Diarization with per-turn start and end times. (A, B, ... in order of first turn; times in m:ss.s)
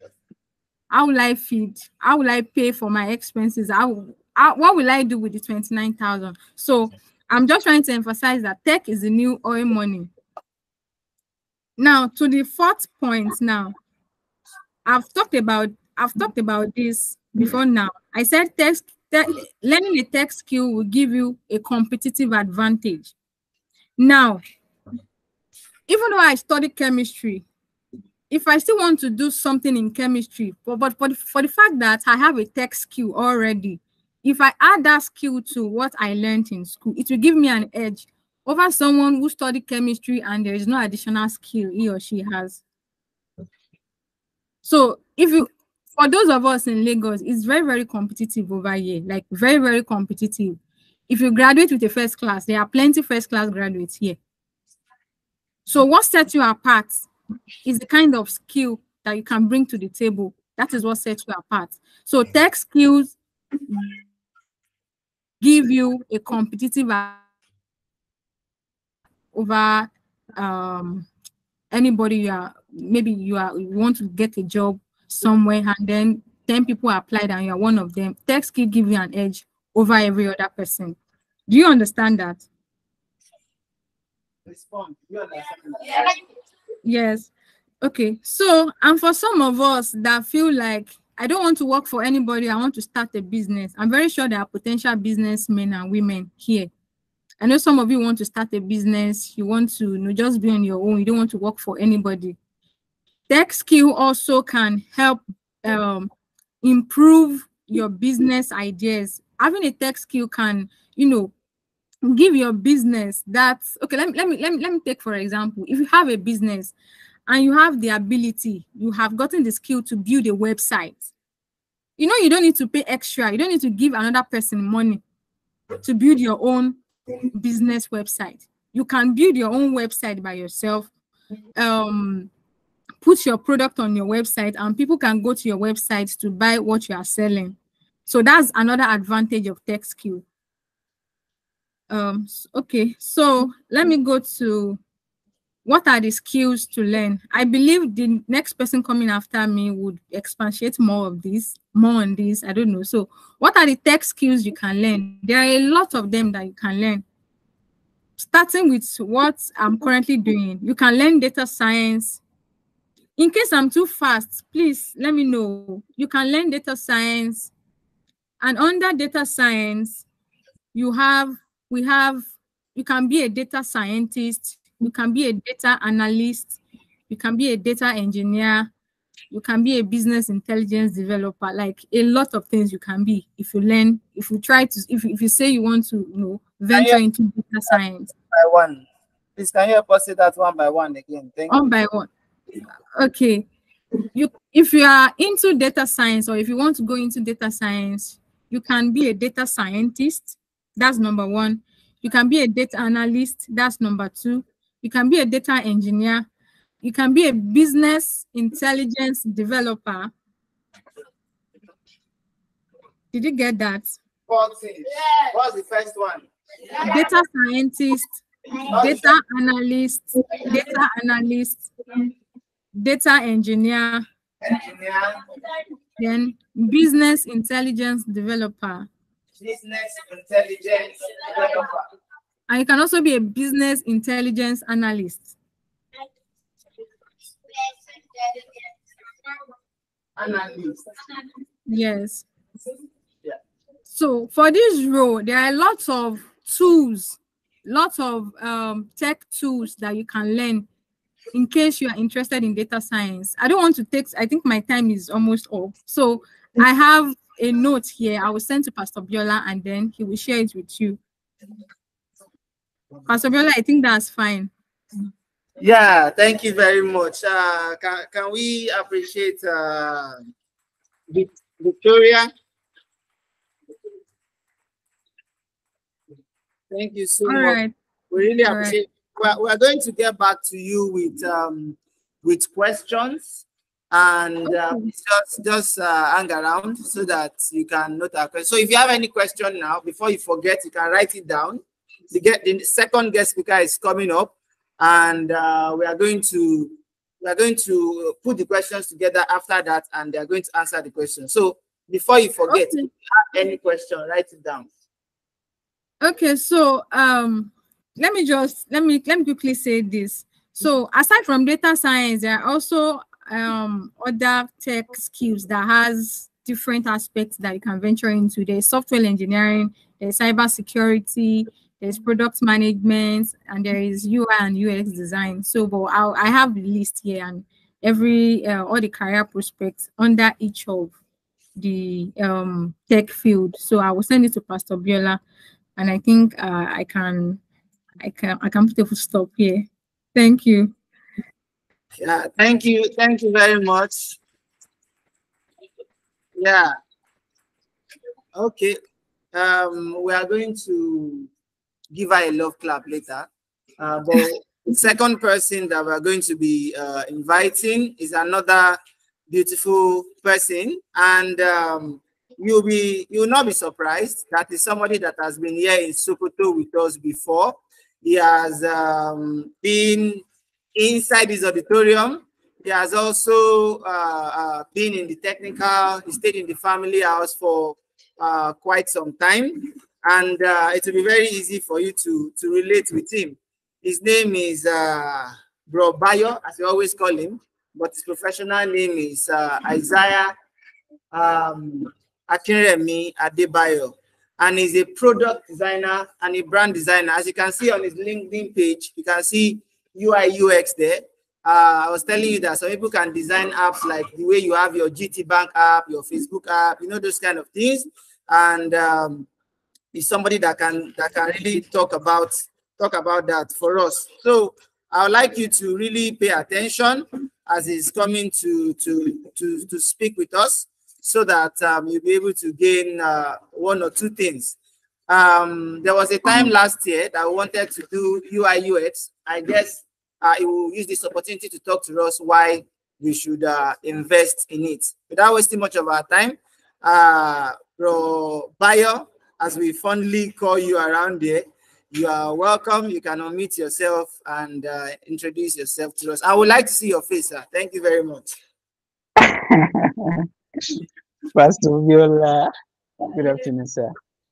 0:00.9-0:10.1 A
0:11.8-0:13.7 A
0:14.8-0:23.1 A
0:24.0-0:24.4 A
0:25.9-0:27.4 A
0:28.3-0:42.6 A
0:44.6-0:54.2 A
0:55.6-0:57.1 A
0:57.6-1:03.2 A
1:05.4-1:07.2 A
1:09.3-1:11.1 A
1:11.7-1:21.0 A
1:21.5-1:22.4 A
1:24.4-1:26.1 B
1:26.8-1:27.3 A
1:27.8-1:36.7 A
1:37.4-1:42.4 A
1:43.3-1:46.1 A
1:46.6-1:51.3 A
1:52.0-1:56.7 A
1:57.3-2:01.0 A
2:02.0-2:05.0 A
2:05.8-2:06.8 A
2:07.3-2:10.9 A
2:11.6-2:12.3 A
2:13.0-2:20.2 A
2:21.9-2:24.8 A
2:25.6-2:37.0 A
2:38.2-2:42.2 A
2:43.2-2:47.5 A
2:48.4-2:50.0 A
2:50.7-2:56.6 A
2:57.1-2:58.7 A
2:59.3-3:08.1 A
3:06.7-3:07.0 B
3:08.3-3:08.8 B
3:09.4-3:11.6 B
3:11.5-3:12.1 A
3:12.9-3:13.5 A
3:14.1-3:26.2 A
3:26.8-3:30.1 A
3:33.1-3:33.9 A
3:34.3-3:36.8 B
3:36.8-3:38.2 A
3:38.7-3:39.1 B
3:38.7-3:41.7 A
3:42.7-3:44.0 A
3:44.4-3:45.4 B
3:46.0-3:48.9 A
3:49.4-3:51.8 B
3:52.5-3:55.3 A
4:00.2-4:01.1 B
4:01.7-4:02.2 A
4:03.9-4:10.7 A
4:11.3-4:21.0 A
4:23.0-4:24.5 A
4:25.6-4:30.3 B
4:31.1-4:32.3 B
4:36.7-4:37.6 B
4:37.2-4:37.7 A
4:38.1-5:04.7 B
4:38.4-4:38.8 A
4:44.4-4:44.9 A
5:02.5-5:02.9 A
5:06.0-5:30.9 A
5:31.6-5:35.2 A
5:35.8-5:37.4 A
5:38.0-5:40.7 A
5:42.0-5:44.2 B
5:46.4-5:46.7 B
5:48.4-5:48.8 B
5:49.3-5:51.3 B
5:51.9-5:53.3 B
5:53.8-5:58.8 B
5:59.3-6:30.3 B
6:31.1-6:49.3 B
6:49.9-7:04.6 B
7:05.1-7:28.3 B
7:29.2-7:30.8 C
7:31.3-7:32.5 C
7:33.1-7:33.9 C